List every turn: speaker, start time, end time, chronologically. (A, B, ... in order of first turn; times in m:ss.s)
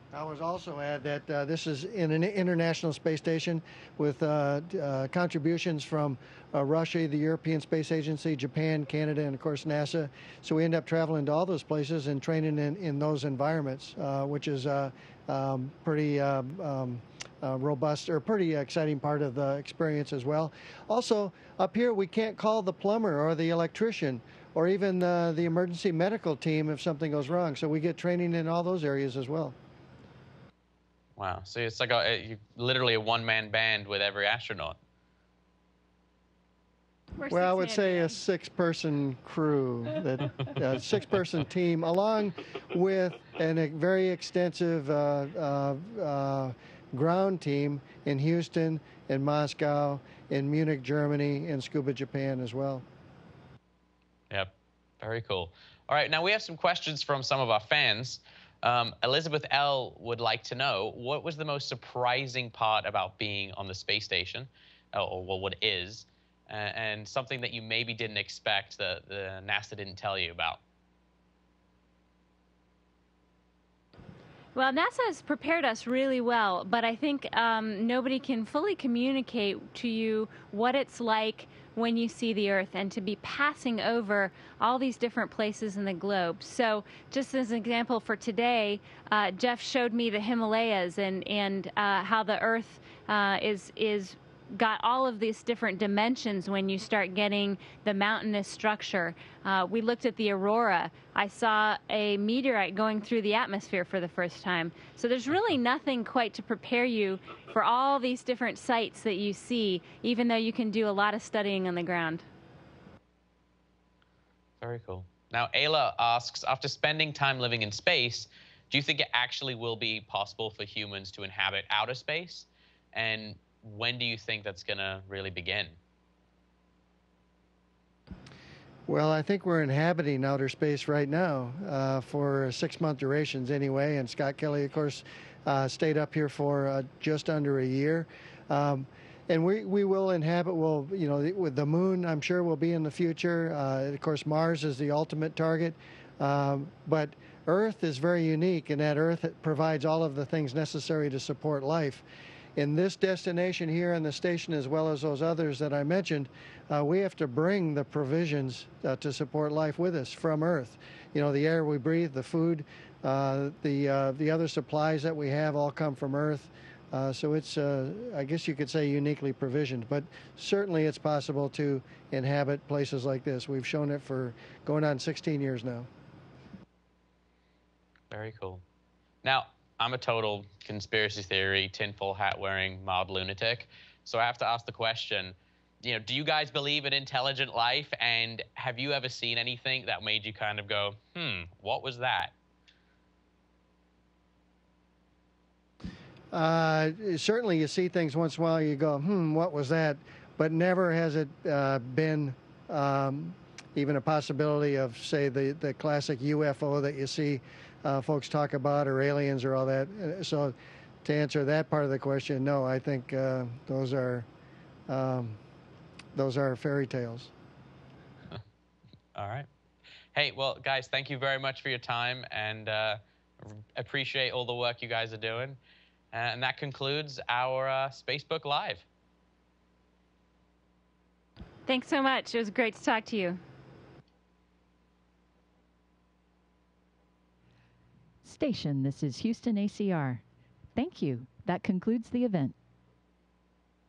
0:00.1-0:29.6 A
0:31.2-0:34.8 B
0:37.2-0:38.2 C
0:37.3-0:52.8 A
0:54.3-1:10.6 B
1:14.6-1:52.2 C
1:54.6-2:05.8 B
2:08.9-2:32.0 A
2:32.6-2:55.9 A
2:58.1-2:58.6 B
2:59.2-3:12.3 B
3:16.3-3:34.3 A
3:34.9-3:35.4 A
3:36.2-3:37.3 A
3:39.2-3:39.5 B
3:40.1-3:45.6 B
3:46.1-3:48.8 B
3:51.7-3:53.4 C
3:58.2-4:00.2 D
4:00.8-4:02.6 D